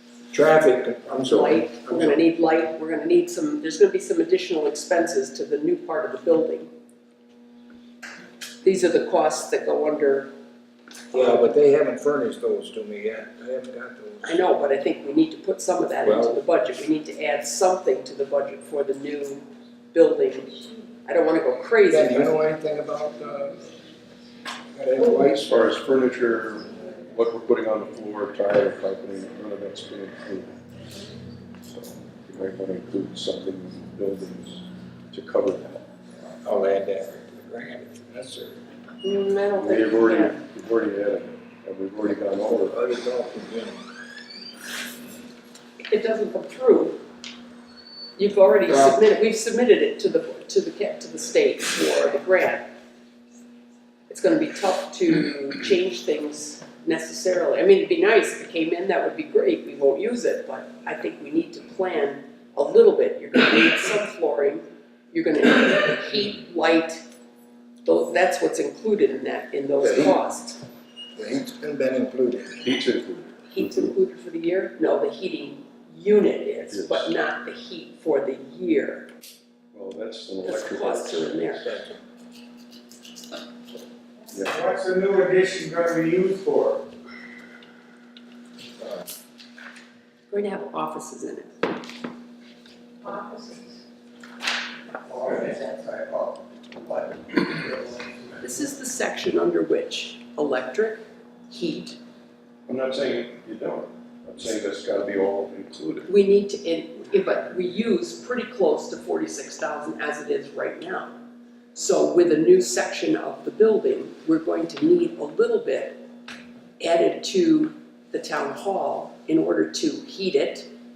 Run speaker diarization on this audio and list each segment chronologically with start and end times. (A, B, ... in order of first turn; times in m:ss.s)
0:00.3-0:02.2 A
0:01.3-0:06.7 B
0:08.6-0:10.3 B
0:11.1-0:11.5 B
0:11.1-0:14.5 A
0:14.2-0:22.4 B
0:16.0-0:16.4 A
0:21.9-0:23.7 A
0:24.7-0:25.7 A
0:25.0-0:30.6 C
0:31.6-0:35.8 C
0:36.4-0:38.6 A
0:39.0-0:40.4 B
0:39.6-0:42.8 C
0:42.4-0:43.9 A
0:45.9-0:47.0 B
0:48.2-0:52.7 B
0:48.7-0:49.0 A
0:54.1-1:07.0 B
1:07.8-1:10.6 B
1:09.8-1:10.2 A
1:11.2-1:12.6 A
1:12.6-1:13.9 C
1:13.5-1:19.1 B
1:16.6-1:17.1 C
1:19.7-1:21.6 C
1:20.4-1:21.7 B
1:21.6-1:22.0 A
1:24.3-1:24.7 C
1:24.8-1:26.8 D
1:30.3-1:31.6 B
1:38.4-1:42.0 B
1:42.7-1:46.1 C
1:46.1-1:51.2 B
1:51.8-1:56.0 B
1:56.8-2:00.7 B